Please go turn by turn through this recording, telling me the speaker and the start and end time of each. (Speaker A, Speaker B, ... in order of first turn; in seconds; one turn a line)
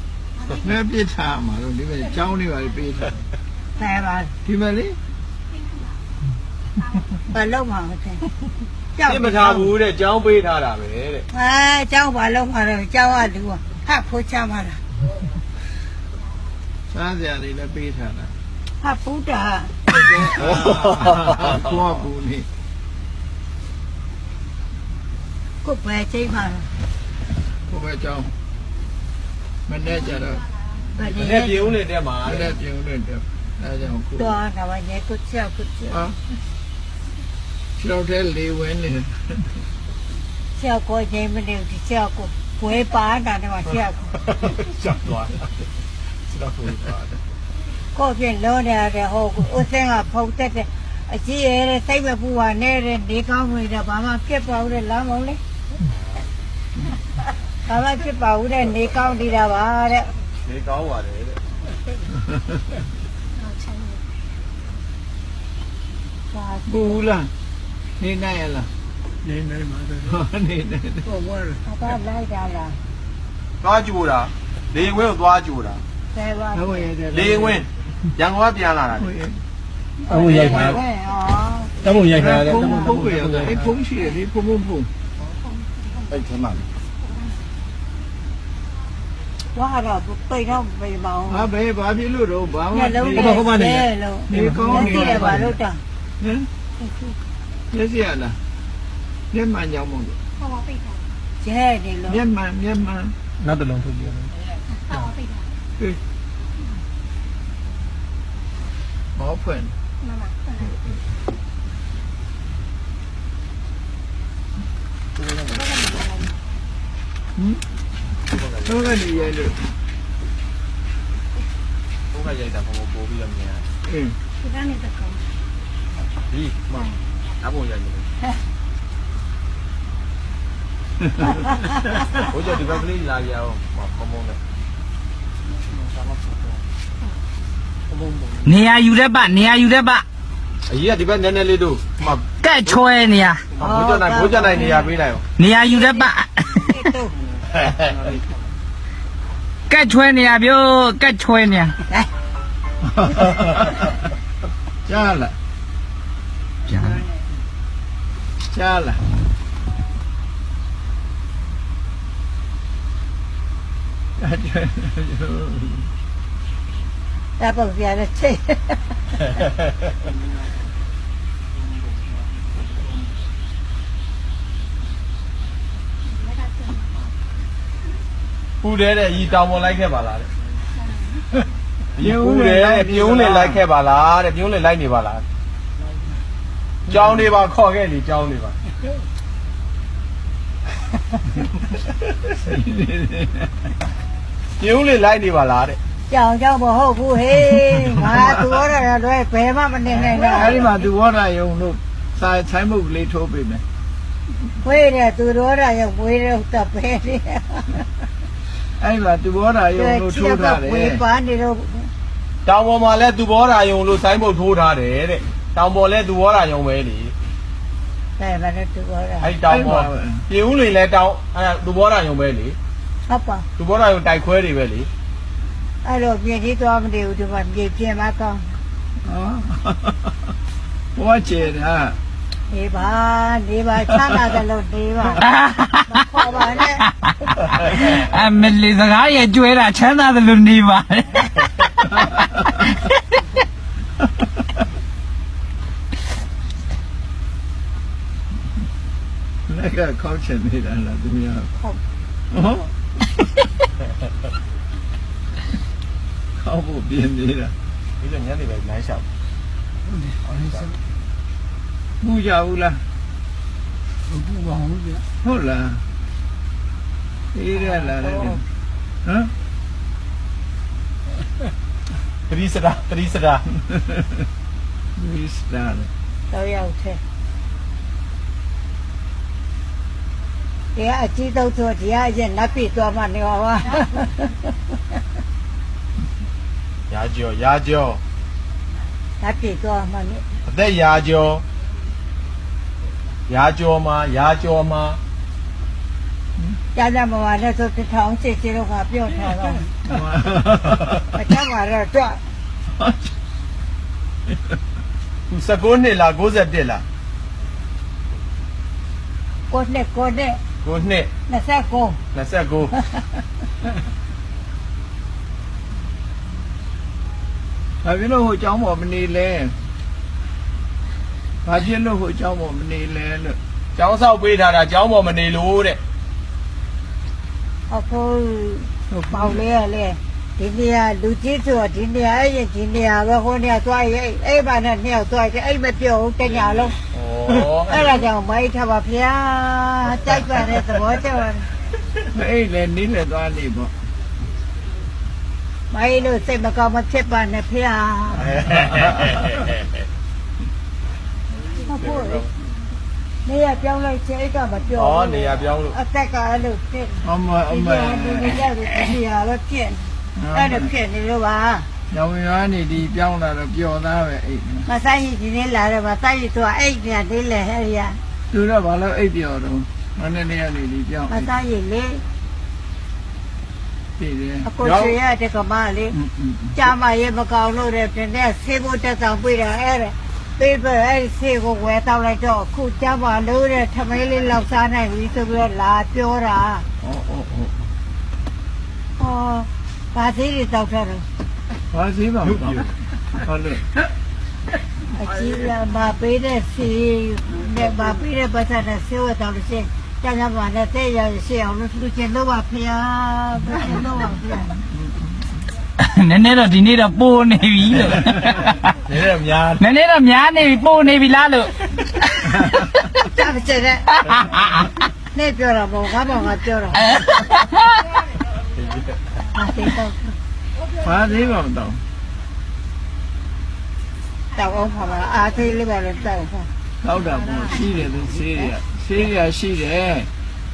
Speaker A: 0.6-3.2
Speaker B: 3.8-4.3
Speaker A: 4.4-5.0
Speaker B: 7.3-8.3
Speaker B: 8.9-9.7
Speaker C: 9.0-11.2
Speaker B: 11.3-14.8
Speaker A: 16.9-18.3
Speaker B: 18.8-20.1
Speaker A: 19.9-22.5
Speaker C: 20.4-21.5
Speaker B: 25.6-26.7
Speaker A: 27.7-28.3
Speaker A: 29.7-30.4
Speaker B: 30.9-31.7
Speaker C: 31.1-32.5
Speaker A: 32.2-34.4
Speaker B: 34.1-36.0
Speaker A: 35.9-36.2
Speaker A: 37.8-39.4
Speaker B: 40.5-44.1
Speaker C: 44.1-45.5
Speaker C: 46.3-47.2
Speaker B: 47.9-55.4
Speaker B: 57.6-60.1
Speaker C: 60.4-61.4
Speaker B: 66.3-67.0
Speaker A: 66.7-67.3
Speaker A: 68.0-68.7
Speaker A: 70.0-71.2
Speaker B: 71.6-72.8
Speaker C: 73.6-75.8
Speaker B: 76.1-76.9
Speaker A: 76.5-77.6
Speaker C: 77.1-79.1
Speaker A: 79.0-79.4
Speaker B: 80.0-82.9
Speaker A: 82.0-84.9
Speaker B: 89.5-91.4
Speaker A: 91.3-93.5
Speaker B: 92.7-95.8
Speaker A: 94.3-95.4
Speaker A: 96.2-96.5
Speaker B: 96.8-97.1
Speaker A: 97.7-98.4
Speaker A: 99.3-100.2
Speaker D: 100.5-101.0
Speaker B: 101.4-102.2
Speaker A: 102.1-103.1
Speaker D: 103.6-104.2
Speaker D: 105.0-105.3
Speaker A: 109.2-109.7
Speaker D: 110.1-110.4
Speaker C: 115.2-115.7
Speaker A: 117.3-117.6
Speaker C: 118.3-119.3
Speaker A: 118.6-119.7
Speaker C: 122.1-123.7
Speaker A: 123.9-124.2
Speaker D: 124.7-125.0
Speaker C: 126.3-128.1
Speaker C: 132.1-134.4
Speaker E: 138.4-140.0
Speaker C: 140.7-142.8
Speaker E: 142.4-143.4
Speaker C: 143.6-145.2
Speaker B: 143.6-144.9
Speaker E: 145.4-146.8
Speaker B: 145.6-146.1
Speaker B: 146.6-147.1
Speaker C: 147.5-148.0
Speaker E: 149.7-151.8
Speaker A: 152.8-153.8
Speaker A: 154.8-155.3
Speaker E: 156.7-157.0
Speaker A: 158.5-159.0
Speaker A: 164.2-165.9
Speaker B: 167.4-168.8
Speaker C: 178.6-180.3
Speaker A: 182.0-183.6
Speaker C: 182.0-185.2
Speaker C: 186.9-188.6
Speaker A: 186.9-187.2
Speaker A: 192.4-193.5
Speaker C: 194.6-195.8
Speaker B: 196.1-200.6
Speaker A: 200.0-203.6
Speaker B: 204.6-207.9
Speaker A: 208.8-211.0
Speaker B: 209.7-211.9
Speaker C: 212.4-217.1
Speaker B: 218.2-219.3
Speaker C: 219.2-222.6
Speaker A: 219.4-220.2
Speaker B: 223.1-223.5
Speaker C: 223.6-224.9
Speaker B: 225.8-228.6
Speaker A: 229.0-230.1
Speaker A: 230.9-232.0
Speaker B: 232.5-235.2
Speaker E: 235.2-236.0
Speaker B: 235.9-236.9
Speaker E: 237.0-241.8
Speaker A: 241.9-242.7
Speaker E: 242.7-242.9
Speaker A: 249.5-251.5
Speaker A: 252.3-252.7
Speaker A: 256.4-257.5
Speaker C: 258.0-259.1
Speaker C: 260.2-260.7
Speaker A: 262.0-262.8
Speaker A: 265.2-265.8
Speaker A: 267.3-268.4
Speaker B: 267.6-268.4
Speaker A: 269.0-269.3
Speaker C: 272.3-273.5
Speaker A: 274.9-275.9
Speaker B: 276.3-277.0
Speaker B: 280.7-284.5
Speaker C: 286.9-288.0
Speaker B: 289.2-290.2
Speaker C: 290.5-291.4
Speaker C: 293.3-295.0
Speaker B: 296.7-299.7
Speaker A: 299.8-301.0
Speaker B: 301.1-302.2
Speaker A: 302.8-303.1
Speaker C: 305.3-306.8
Speaker B: 309.5-310.4
Speaker C: 310.6-311.1
Speaker B: 311.3-312.0
Speaker C: 312.1-312.7
Speaker B: 312.8-313.0
Speaker A: 317.8-319.5
Speaker A: 321.4-323.4
Speaker C: 323.8-325.8
Speaker B: 327.7-336.8
Speaker A: 328.9-329.4
Speaker C: 336.9-337.9
Speaker B: 337.7-341.5
Speaker A: 342.1-343.7
Speaker B: 345.7-348.4
Speaker C: 348.3-349.5
Speaker B: 351.6-352.3
Speaker C: 351.8-352.3
Speaker B: 353.2-361.7
Speaker C: 354.8-355.8
Speaker A: 357.0-358.4
Speaker A: 360.2-360.7
Speaker A: 361.9-364.7
Speaker B: 364.6-368.0
Speaker A: 368.3-371.3
Speaker B: 371.1-372.0
Speaker A: 374.0-374.5
Speaker B: 374.4-376.0
Speaker C: 374.6-374.9
Speaker A: 375.9-376.6
Speaker B: 376.5-386.6
Speaker A: 386.8-387.6
Speaker B: 389.0-391.1
Speaker A: 391.7-393.7
Speaker C: 392.2-392.7
Speaker B: 394.9-404.6
Speaker A: 404.7-405.1
Speaker E: 405.8-408.6
Speaker C: 408.9-409.6
Speaker E: 409.6-412.4
Speaker B: 413.1-413.9
Speaker E: 414.1-414.7
Speaker B: 415.1-417.0
Speaker E: 417.0-417.8
Speaker C: 418.5-418.9
Speaker B: 419.3-420.1
Speaker A: 420.8-421.8
Speaker B: 424.3-426.5
Speaker A: 426.8-430.1